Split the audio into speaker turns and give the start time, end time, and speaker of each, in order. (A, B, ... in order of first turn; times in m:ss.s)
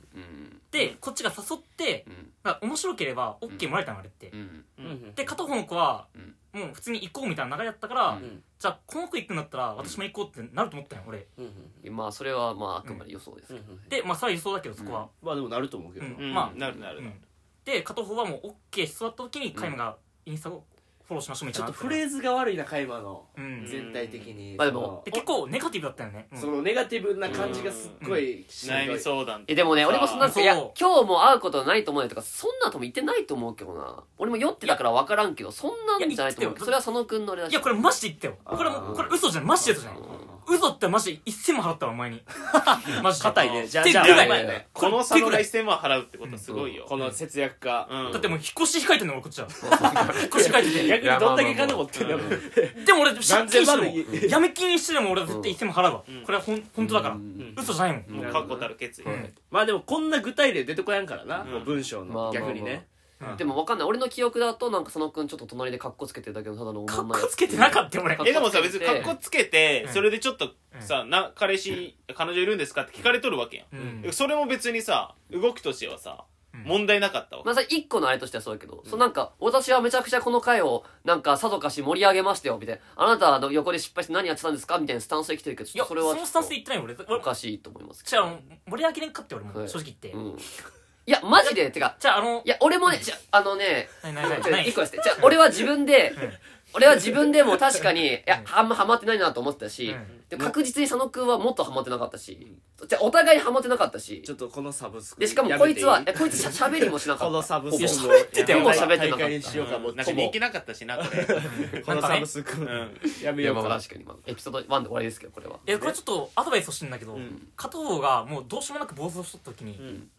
0:00.1-0:00.9 A
0:00.7-0:04.3 B
0:02.0-0:02.3 A
0:04.3-0:04.7 A
0:04.8-0:05.3 C
0:05.1-0:11.3 B
0:08.2-0:08.4 C
0:11.4-0:11.8 C
0:11.8-0:13.9 A
0:13.5-0:13.8 C
0:13.9-0:15.1 B
0:14.8-0:15.1 A
0:15.1-0:16.6 C
0:16.0-0:22.0 B
0:16.2-0:17.2 D
0:21.5-0:25.2 C
0:23.4-0:23.8 B
0:23.6-0:24.4 D
0:24.6-0:25.0 A
0:25.0-0:26.5 B
0:26.3-0:29.1 C
0:27.2-0:28.0 D
0:27.3-0:27.6 A
0:28.0-0:28.3 B
0:28.6-0:30.3 D
0:29.5-0:37.8 A
0:30.2-0:30.8 B
0:36.0-0:36.8 B
0:37.5-0:45.5 B
0:38.4-0:40.4 C
0:38.8-0:39.1 A
0:39.9-0:40.3 A
0:42.8-0:44.6 C
0:43.4-0:46.9 D
0:44.0-0:44.6 A
0:46.5-0:47.1 A
0:46.8-0:48.2 C
0:47.8-0:48.3 D
0:48.1-0:51.0 B
0:49.6-0:52.4 A
0:49.9-0:54.4 C
0:51.9-0:52.4 D
0:52.8-0:58.2 B
0:54.0-0:54.4 A
0:55.3-0:55.6 A
0:56.8-0:59.3 A
0:57.4-0:58.6 C
0:58.1-0:59.1 D
0:59.0-0:59.3 B
0:59.4-1:03.5 C
1:01.4-1:01.8 D
1:02.1-1:09.1 A
1:03.2-1:03.5 B
1:06.9-1:08.3 B
1:08.2-1:17.5 D
1:13.7-1:14.1 B
1:13.8-1:14.0 C
1:17.4-1:26.5 A
1:25.7-1:27.3 B
1:27.1-1:28.4 A
1:28.0-1:30.2 B
1:29.5-1:30.5 A
1:31.0-1:44.3 A
1:31.4-1:33.0 B
1:34.0-1:35.3 B
1:36.1-1:36.4 B
1:37.0-1:37.3 C
1:39.8-1:40.2 B
1:44.2-1:50.4 C
1:45.2-1:50.3 A
1:47.7-1:49.1 B
1:48.4-1:48.7 D
1:49.5-1:51.8 D
1:51.0-1:53.8 C
1:51.4-1:52.3 B
1:52.6-1:53.1 D
1:53.2-1:55.6 A
1:55.6-1:56.0 C
1:55.6-1:59.8 B
1:59.8-2:00.0 C